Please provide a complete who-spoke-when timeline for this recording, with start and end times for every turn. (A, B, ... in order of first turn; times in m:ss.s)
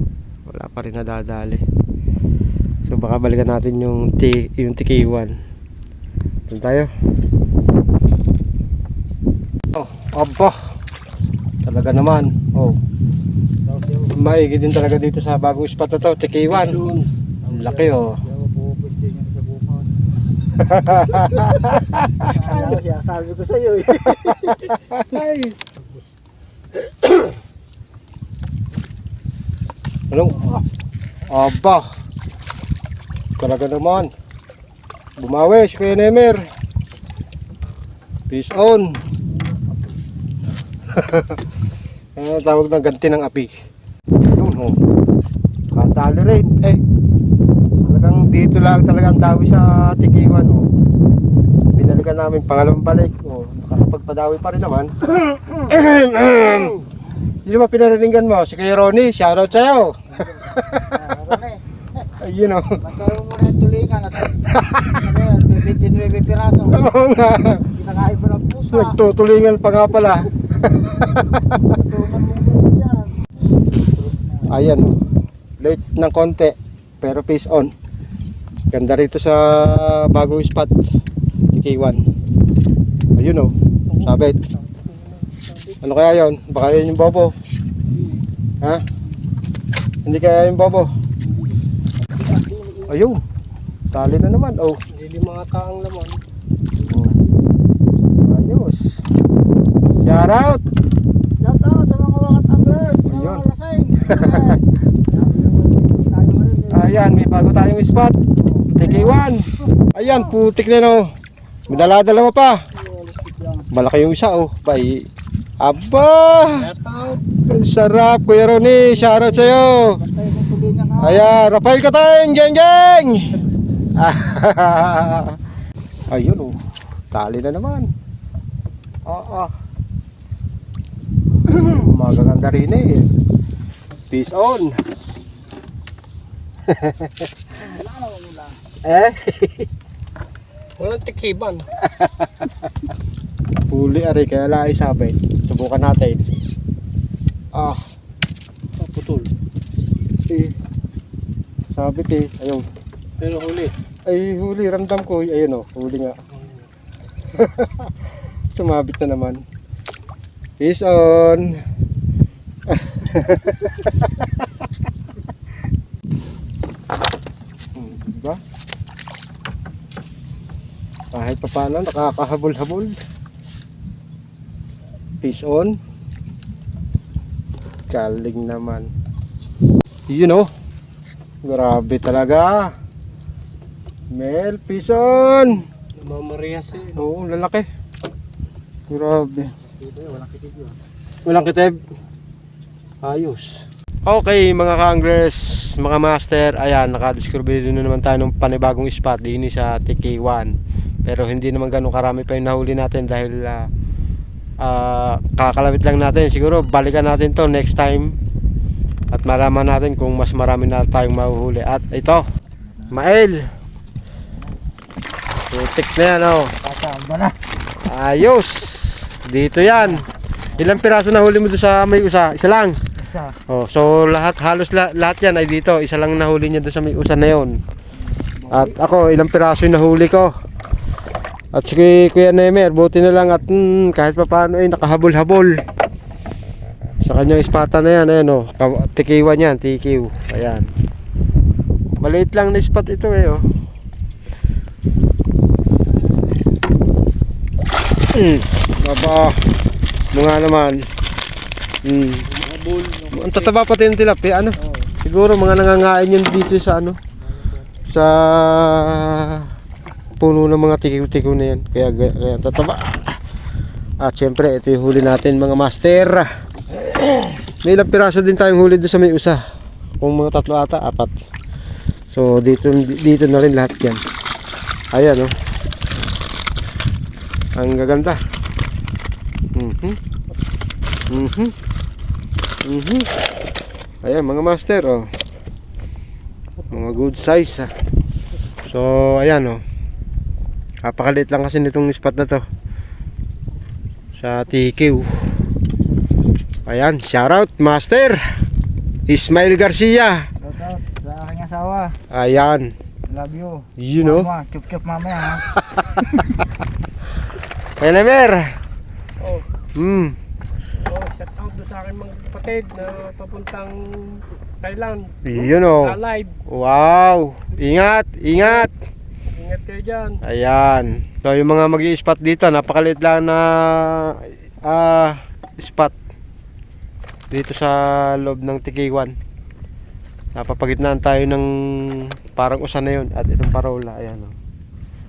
0:00.5-0:01.6 A
0:02.9-0:05.4 A
0:06.5-0:06.9 A
0:09.7-0:10.6 A
0:11.6-0:12.8 A
0:13.7-0:14.1 B
0:14.1-0:16.8 A
0:16.5-0:17.1 C
0:17.5-0:18.2 A
0:17.5-0:19.9 B
0:20.6-0:22.4 A
0:21.3-0:21.5 B
0:22.4-0:24.6 B
0:24.0-0:25.6 A
0:26.8-0:27.3 C
0:30.1-0:30.6 A
0:31.3-0:31.9 A
0:33.4-0:34.1 A
0:35.2-0:36.4 A
0:38.3-0:38.9 A
0:40.9-0:41.4 A
0:42.2-0:43.5 A
0:44.2-0:44.8 A
0:45.7-0:46.8 A
0:47.8-0:50.7 A
0:51.7-0:56.8 A
0:57.4-1:01.3 A
1:00.9-1:01.6 B
1:02.2-1:02.9 A
1:02.8-1:06.8 B
1:04.3-1:05.1 A
1:06.6-1:07.6 A
1:07.7-1:09.0 B
1:08.7-1:10.3 A
1:10.9-1:11.7 A
1:11.7-1:13.1 B
1:13.8-1:14.5 B
1:14.5-1:15.0 A
1:15.6-1:17.7 A
1:18.7-1:20.9 A
1:21.5-1:22.0 A
1:23.2-1:24.4 A
1:23.9-1:25.8 C
1:25.8-1:27.3 A
1:27.9-1:28.2 C
1:30.0-1:30.9 A
1:32.3-1:32.8 C
1:32.8-1:33.2 A
1:33.9-1:34.8 A
1:34.9-1:36.2 C
1:36.8-1:37.2 A
1:38.2-1:39.0 A
1:40.0-1:40.6 A
1:41.4-1:47.0 B
1:43.0-1:43.5 A
1:44.0-1:44.6 A
1:46.7-1:48.2 A
1:48.6-1:48.9 B
1:48.7-1:51.1 A
1:51.7-1:52.6 A
1:52.9-1:53.7 B
1:53.7-1:55.0 A
1:55.6-1:56.7 A
1:56.6-1:57.2 C
1:57.4-2:00.0 A
1:59.1-2:01.2 B
2:01.0-2:03.4 A
2:04.0-2:05.4 A
2:06.1-2:06.6 A
2:07.1-2:07.9 A
2:09.0-2:09.5 A
2:11.5-2:13.1 A
2:14.1-2:14.8 A
2:16.7-2:17.3 A
2:17.6-2:18.6 B
2:18.9-2:19.7 A
2:20.8-2:21.7 C
2:21.9-2:22.5 A
2:23.7-2:26.2 A
2:27.5-2:27.8 A
2:28.8-2:29.3 C
2:30.3-2:30.5 A
2:31.7-2:32.6 A
2:33.2-2:33.7 C
2:34.1-2:36.2 A
2:36.3-2:36.7 C
2:37.3-2:37.9 A
2:38.6-2:39.4 A
2:40.6-2:41.6 A
2:42.7-2:44.3 A
2:47.8-2:48.4 A
2:51.1-2:53.0 A
2:55.2-2:55.8 A
2:57.9-2:58.9 A
3:00.1-3:00.5 A
3:01.4-3:02.7 A
3:04.1-3:05.6 A
3:06.0-3:07.0 C
3:06.9-3:07.7 A
3:08.9-3:09.5 A
3:09.9-3:10.8 B
3:11.2-3:11.8 A
3:13.0-3:20.5 A
3:21.0-3:23.7 A
3:24.6-3:28.2 A
3:29.1-3:32.2 A
3:32.9-3:33.5 A
3:35.5-3:36.6 A
3:36.7-3:37.4 B
3:37.8-3:42.8 A
3:43.3-3:47.6 A
3:48.5-3:50.3 A
3:51.5-3:55.6 A
3:57.0-4:00.7 A
4:02.0-4:03.4 A
4:08.1-4:09.4 A
4:10.1-4:10.8 A
4:11.8-4:12.3 A
4:12.3-4:13.5 C
4:13.1-4:17.0 A
4:17.8-4:19.5 A
4:20.2-4:23.2 A
4:24.0-4:26.3 A
4:26.9-4:29.4 A
4:30.0-4:31.1 A
4:32.1-4:34.0 A
4:34.9-4:35.3 A
4:37.6-4:38.2 A
4:39.6-4:40.0 A
4:41.1-4:41.6 A
4:42.6-4:43.2 A
4:44.0-4:45.1 A
4:46.7-4:47.7 A
4:48.6-4:49.6 A
4:50.8-4:52.4 A
4:54.2-4:55.3 A
4:56.7-4:58.2 A
4:59.1-5:00.3 A
5:00.4-5:02.0 B
5:02.0-5:02.7 A
5:03.1-5:05.5 B
5:03.8-5:04.3 A
5:05.6-5:06.0 A
5:07.8-5:08.6 A
5:09.2-5:09.5 C
5:09.8-5:10.2 A
5:10.8-5:16.4 C
5:15.2-5:18.7 A
5:18.4-5:18.7 C
5:19.3-5:20.2 C
5:20.2-5:26.0 A
5:27.3-5:29.2 A
5:30.4-5:34.3 A